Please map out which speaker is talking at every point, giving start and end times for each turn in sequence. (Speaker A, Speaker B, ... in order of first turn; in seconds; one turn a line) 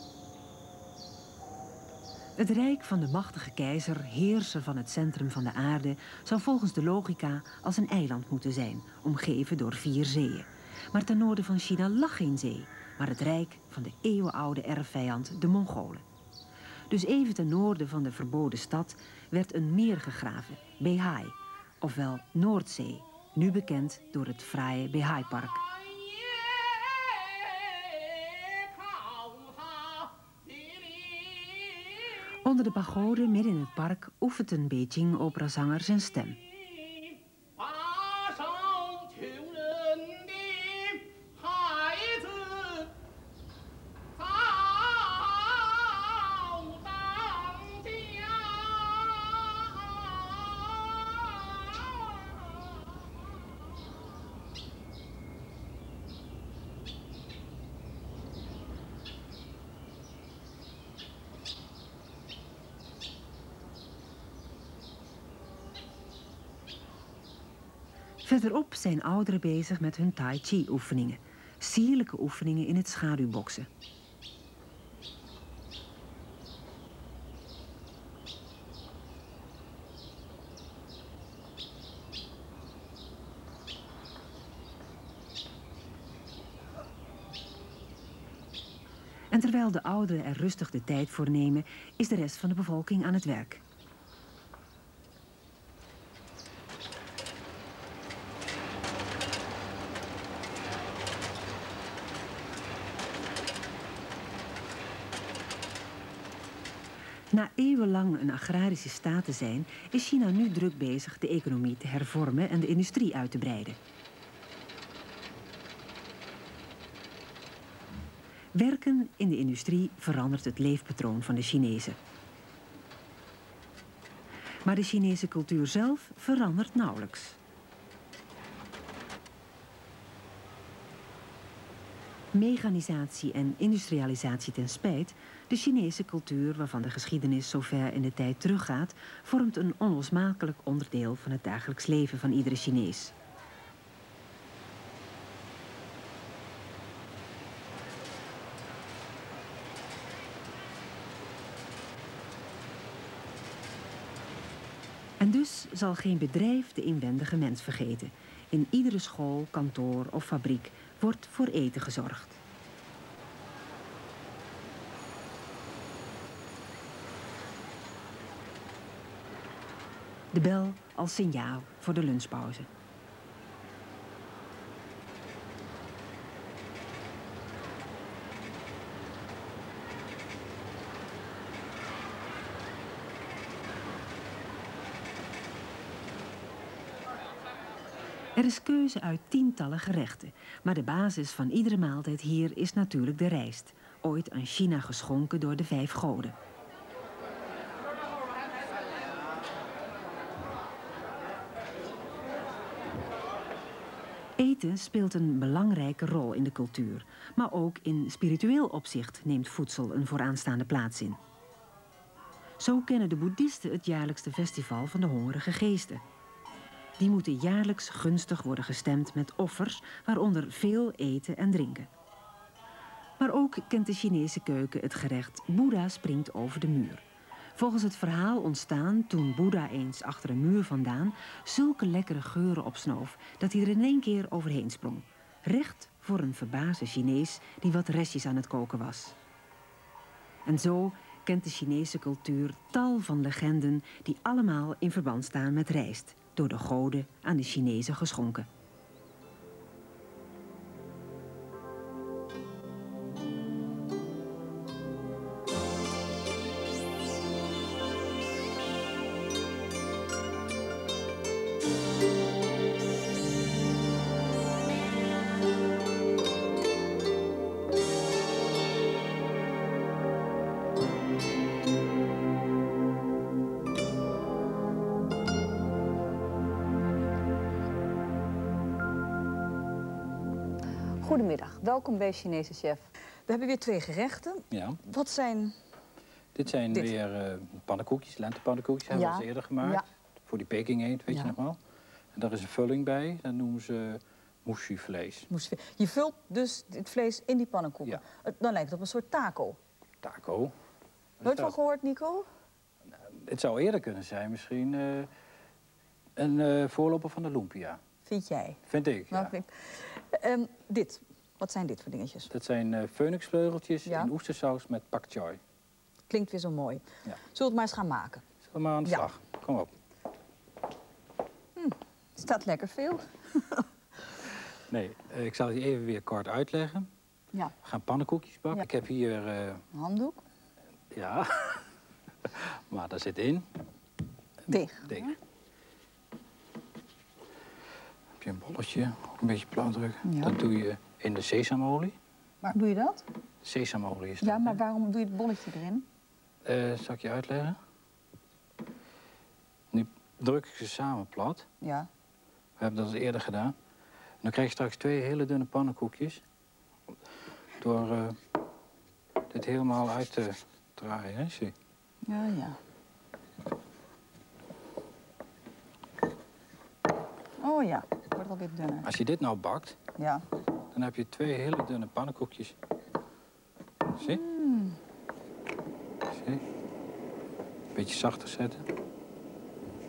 Speaker A: 2.4-16.0
Speaker A: 16.9-25.6
Speaker A: 32.4-36.4
Speaker B: 37.9-42.9
Speaker B: 44.3-45.4
Speaker B: 46.0-49.4
Speaker A: 68.2-73.7
Speaker A: 89.3-93.6
Speaker A: 107.3-113.8
Speaker A: 118.5-122.0
Speaker A: 124.6-127.4
Speaker A: 132.3-143.1
Speaker A: 155.2-162.4
Speaker A: 170.3-172.7
Speaker A: 188.4-196.3
Speaker A: 204.4-211.2
Speaker A: 212.6-216.0
Speaker A: 217.0-221.9
Speaker A: 223.2-227.0
Speaker A: 227.6-239.1
Speaker A: 240.4-248.5
Speaker C: 281.0-285.6
Speaker B: 284.5-284.8
Speaker B: 286.4-291.6
Speaker C: 288.9-289.8
Speaker B: 292.1-295.3
Speaker C: 295.3-299.6
Speaker B: 300.0-300.5
Speaker B: 301.2-301.6
Speaker C: 301.2-302.3
Speaker B: 303.0-305.1
Speaker B: 306.2-307.8
Speaker C: 308.1-308.6
Speaker B: 308.7-309.4
Speaker C: 309.1-312.3
Speaker B: 312.3-315.4
Speaker C: 313.9-314.1
Speaker C: 316.1-318.2
Speaker B: 318.4-319.7
Speaker C: 321.6-323.7
Speaker B: 324.7-326.9
Speaker B: 327.6-329.6
Speaker C: 329.7-330.2
Speaker B: 330.9-331.6
Speaker B: 332.2-333.5
Speaker C: 334.5-335.1
Speaker B: 338.2-342.0
Speaker C: 340.0-340.3
Speaker C: 342.4-343.1
Speaker B: 343.4-344.6
Speaker C: 344.2-345.9
Speaker B: 346.4-347.6
Speaker B: 349.7-351.4
Speaker C: 351.6-351.9
Speaker B: 352.6-353.6
Speaker B: 354.2-356.2
Speaker B: 357.6-358.2
Speaker B: 359.3-361.5
Speaker C: 362.1-362.6
Speaker C: 367.4-368.9
Speaker B: 368.8-369.8
Speaker C: 370.0-370.2
Speaker B: 370.7-372.6
Speaker C: 374.0-374.8
Speaker B: 376.1-376.4
Speaker B: 377.8-378.6